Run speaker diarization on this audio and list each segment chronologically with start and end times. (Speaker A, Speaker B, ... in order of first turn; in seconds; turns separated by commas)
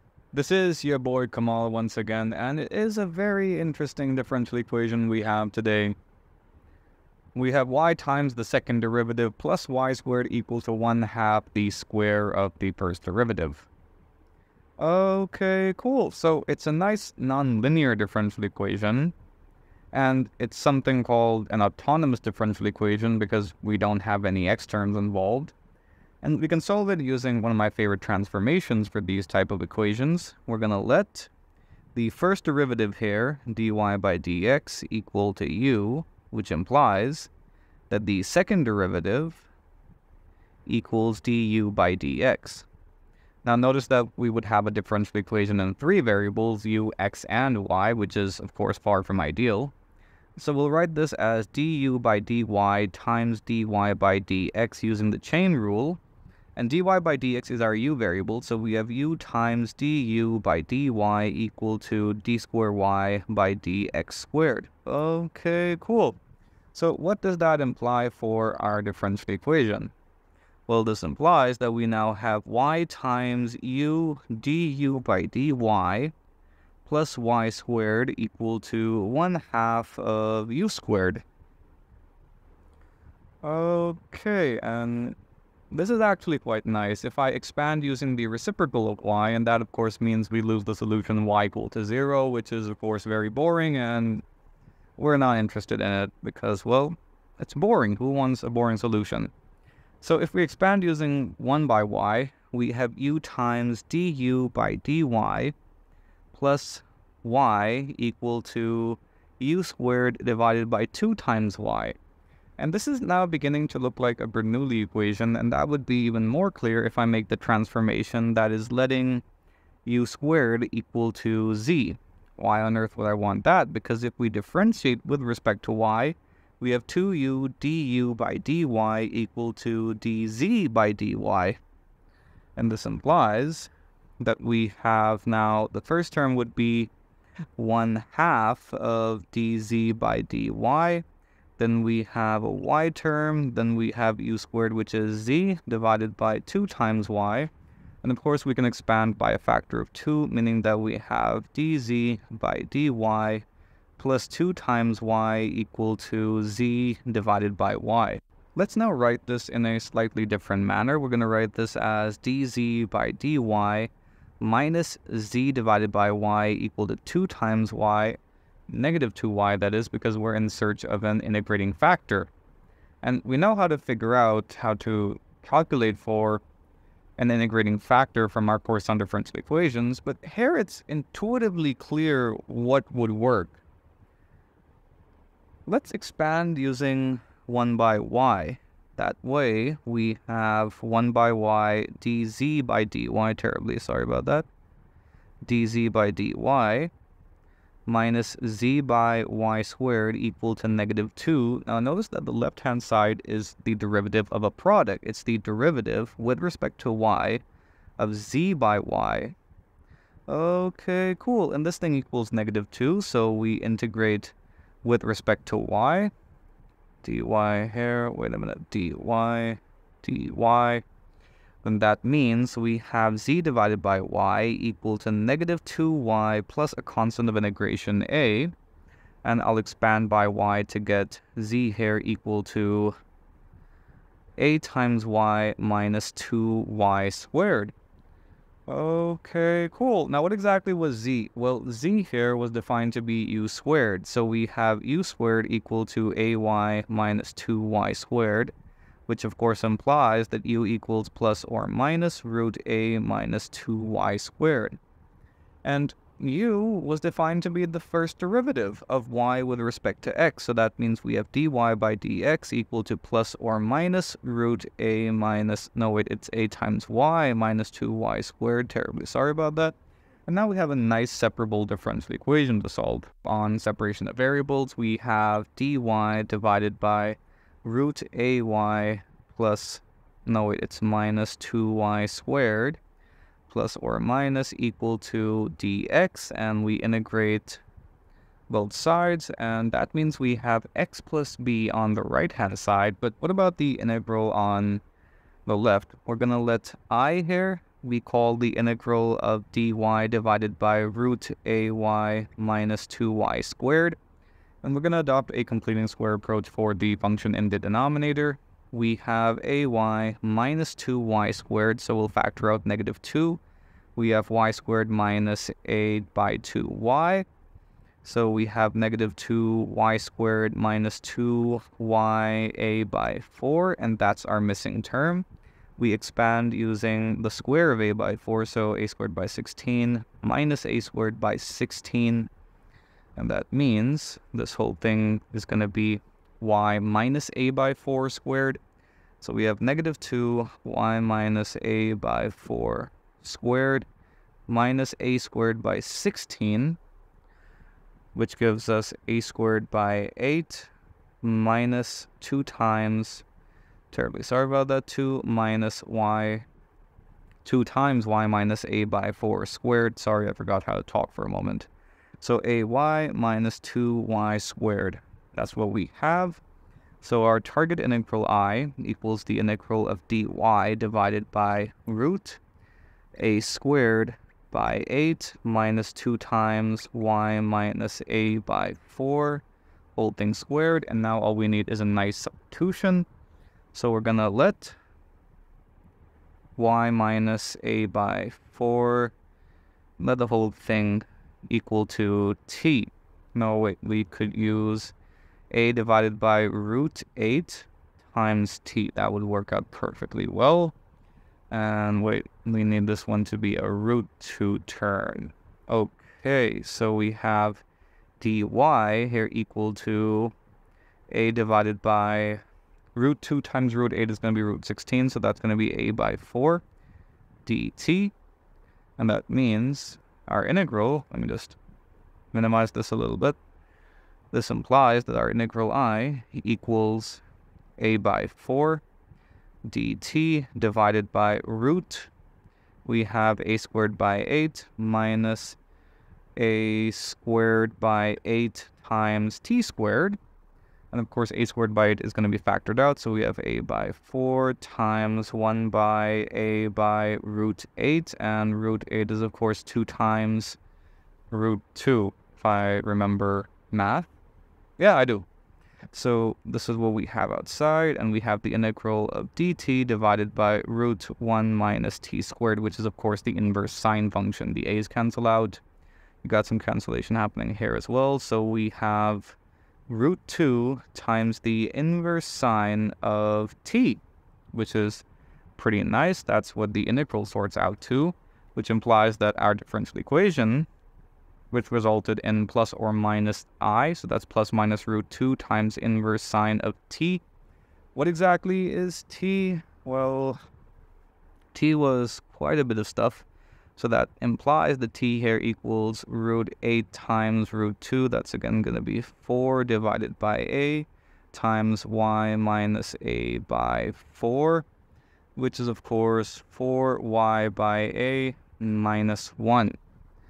Speaker A: 0.3-6.0, Speaker A: 7.3-13.7, Speaker A: 14.8-19.1, Speaker A: 19.9-25.5, Speaker A: 26.2-31.3, Speaker A: 31.9-37.3, Speaker A: 37.9-39.5, Speaker A: 40.7-42.7, Speaker A: 43.5-49.7, Speaker A: 50.4-56.0, Speaker A: 56.5-66.2, Speaker A: 66.7-69.9, Speaker A: 70.7-76.1, Speaker A: 76.8-81.2, Speaker A: 83.4-85.2, Speaker A: 85.7-94.2, Speaker A: 95.0-99.3, Speaker A: 100.0-105.5, Speaker A: 106.3-112.0, Speaker A: 112.6-119.2, Speaker A: 119.8-131.6, Speaker A: 132.6-136.9, Speaker A: 137.6-141.0, Speaker A: 141.6-147.5, Speaker A: 148.0-153.4, Speaker A: 154.0-168.2, Speaker A: 168.7-172.3, Speaker A: 173.0-176.4, Speaker A: 177.2-183.6, Speaker A: 185.7-194.5, Speaker A: 195.4-196.9, Speaker A: 197.8-207.4, Speaker A: 208.0-209.3, Speaker A: 210.3-216.1, Speaker A: 217.0-220.8, Speaker A: 221.6-228.5, Speaker A: 229.2-232.9, Speaker A: 234.4-237.7, Speaker A: 238.7-248.5, Speaker A: 249.1-254.8, Speaker A: 255.6-269.8, Speaker A: 270.3-282.8, Speaker A: 283.5-287.6, Speaker A: 288.5-294.8, Speaker A: 295.5-304.0, Speaker A: 304.6-313.4, Speaker A: 314.0-317.3, Speaker A: 318.0-325.2, Speaker A: 325.8-332.3, Speaker A: 333.2-338.6, Speaker A: 339.2-343.9, Speaker A: 344.5-346.8, Speaker A: 348.1-350.7, Speaker A: 351.2-353.2, Speaker A: 353.9-356.5, Speaker A: 357.4-361.7, Speaker A: 362.2-366.4, Speaker A: 367.0-372.4, Speaker A: 373.2-379.4, Speaker A: 380.0-383.1, Speaker A: 383.7-384.8, Speaker A: 386.6-389.1, Speaker A: 390.0-394.9, Speaker A: 395.5-400.8, Speaker A: 401.5-407.6, Speaker A: 408.2-410.4, Speaker A: 411.1-412.4, Speaker A: 412.9-416.6, Speaker A: 417.5-418.1, Speaker A: 419.0-421.6, Speaker A: 422.3-423.4, Speaker A: 424.3-427.2, Speaker A: 427.8-428.8, Speaker A: 429.7-432.1, Speaker A: 432.9-435.6, Speaker A: 436.4-440.2, Speaker A: 440.9-450.6, Speaker A: 451.3-454.1, Speaker A: 454.8-455.3, Speaker A: 455.9-465.6, Speaker A: 466.2-469.4, Speaker A: 469.9-474.0, Speaker A: 474.5-475.0, Speaker A: 475.6-480.7, Speaker A: 481.5-487.2, Speaker A: 487.9-490.4, Speaker A: 491.5-493.2, Speaker A: 493.8-504.7, Speaker A: 505.4-509.8